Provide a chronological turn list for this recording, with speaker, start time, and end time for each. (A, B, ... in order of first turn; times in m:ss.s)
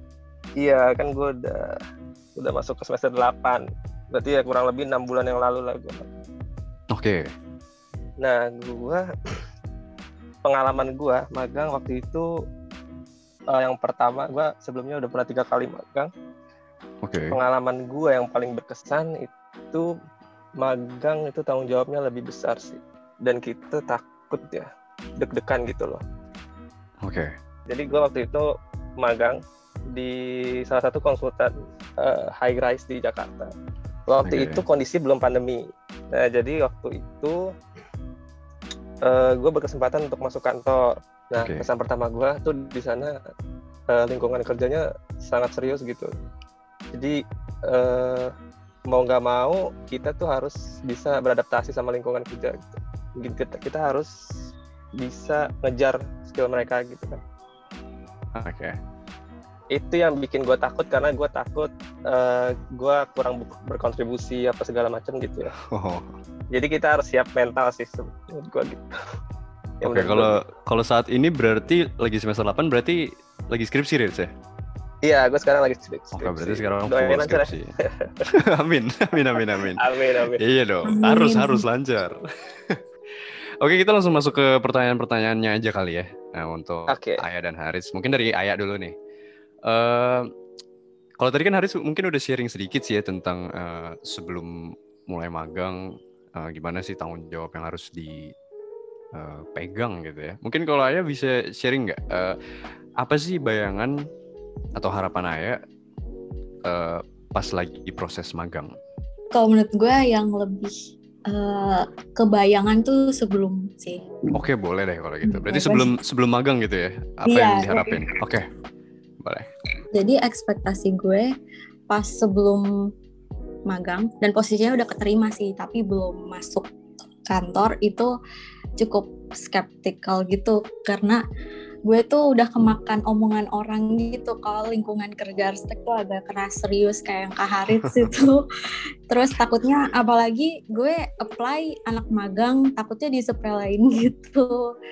0:00.6-0:01.8 A
0:02.4-0:06.2 A
0:06.9-0:07.3 B
0:08.2-0:09.1 A
0:10.4-0:12.3 A
0:13.5-0:16.1 A
0:17.0-0:17.4 B
0:17.3-0:19.9 A
0:20.6-0:26.0 A
0:27.0-0:27.3 B
0:27.7-0:33.5 A
0:34.1-0:37.5 A
0:34.2-0:34.6 B
0:39.0-0:43.2 A
0:41.4-0:41.6 B
0:43.9-0:46.1 A
0:46.9-0:48.3 A
0:48.9-0:54.1 A
0:55.0-0:57.2 A
0:58.4-0:58.8 B
0:59.7-1:05.5 A
1:05.5-1:06.2 B
1:06.5-1:09.0 A
1:09.8-1:10.4 A
1:09.8-1:14.3 B
1:15.0-1:18.2 A
1:16.1-1:17.7 B
1:18.3-1:22.8 B
1:19.3-1:20.4 A
1:20.8-1:21.6 C
1:23.6-1:28.9 B
1:26.9-1:27.2 A
1:29.6-1:30.3 B
1:31.2-1:35.8 B
1:36.4-1:38.3 B
1:39.1-1:42.4 B
1:43.0-1:44.0 B
1:44.8-1:45.6 B
1:46.6-1:48.7 B
1:49.3-1:50.8 C
1:51.3-1:54.2 C
1:54.3-1:58.5 B
1:55.2-1:55.9 C
1:57.3-1:58.1 C
1:59.9-2:01.3 C
2:01.9-2:02.7 C
2:03.7-2:06.7 C
2:07.3-2:08.1 C
2:08.8-2:11.2 C
2:11.9-2:18.4 C
2:17.8-2:18.1 B
2:19.1-2:24.7 C